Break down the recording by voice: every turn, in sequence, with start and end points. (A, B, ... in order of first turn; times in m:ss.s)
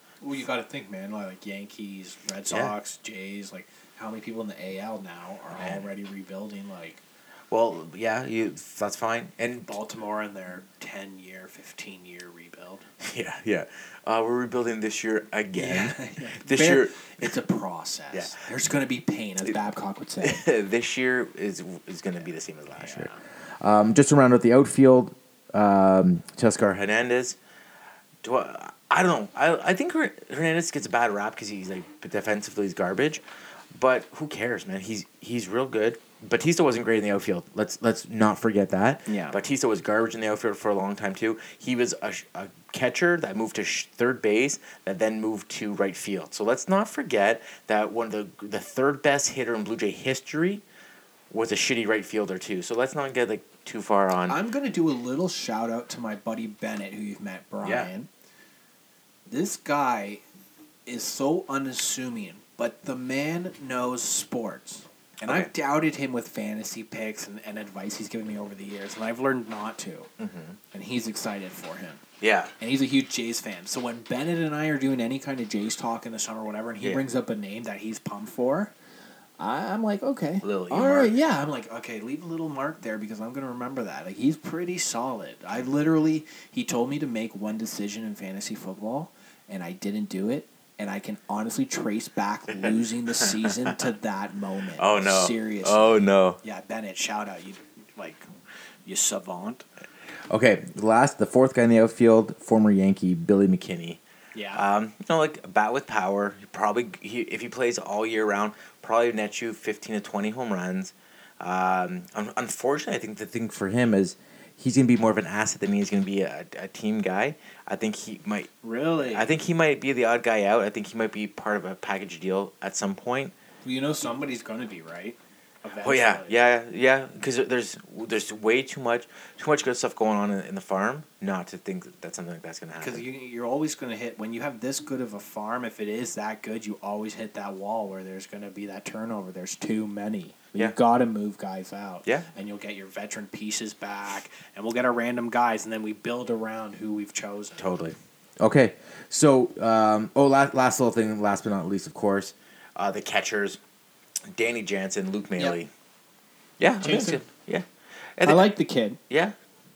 0:00.2-0:07.0 A
0:02.5-0:02.7 B
0:05.5-0:05.8 B
0:07.5-0:09.7 B
0:09.6-0:12.8 A
0:13.0-0:17.3 B
0:15.6-0:20.4 A
0:20.2-0:23.1 B
0:22.8-0:23.2 A
0:23.6-0:27.4 B
0:28.2-0:33.2 B
0:33.7-0:50.6 B
0:39.1-0:39.4 A
0:51.3-0:54.4 B
0:54.3-0:58.1 A
0:57.6-0:57.9 B
0:59.3-1:00.2 A
1:00.9-1:10.1 A
1:05.2-1:05.5 B
1:10.2-1:10.6 B
1:10.7-1:12.0 A
1:12.2-1:12.5 B
1:12.6-1:18.7 A
1:19.4-1:38.2 A
1:20.4-1:21.2 B
1:32.6-1:33.7 B
1:34.8-1:36.4 B
1:38.8-1:39.6 A
1:40.3-1:44.0 B
1:44.3-1:44.6 A
1:44.5-1:58.5 B
1:58.6-1:59.3 A
1:59.0-2:03.3 B
2:03.6-2:06.4 A
2:05.8-2:13.0 B
2:12.8-2:27.7 A
2:27.6-2:33.6 B
2:34.3-2:35.7 B
2:36.6-2:37.6 B
2:36.8-2:37.2 A
2:38.2-2:38.5 B
2:38.2-2:39.0 A
2:39.1-2:39.3 B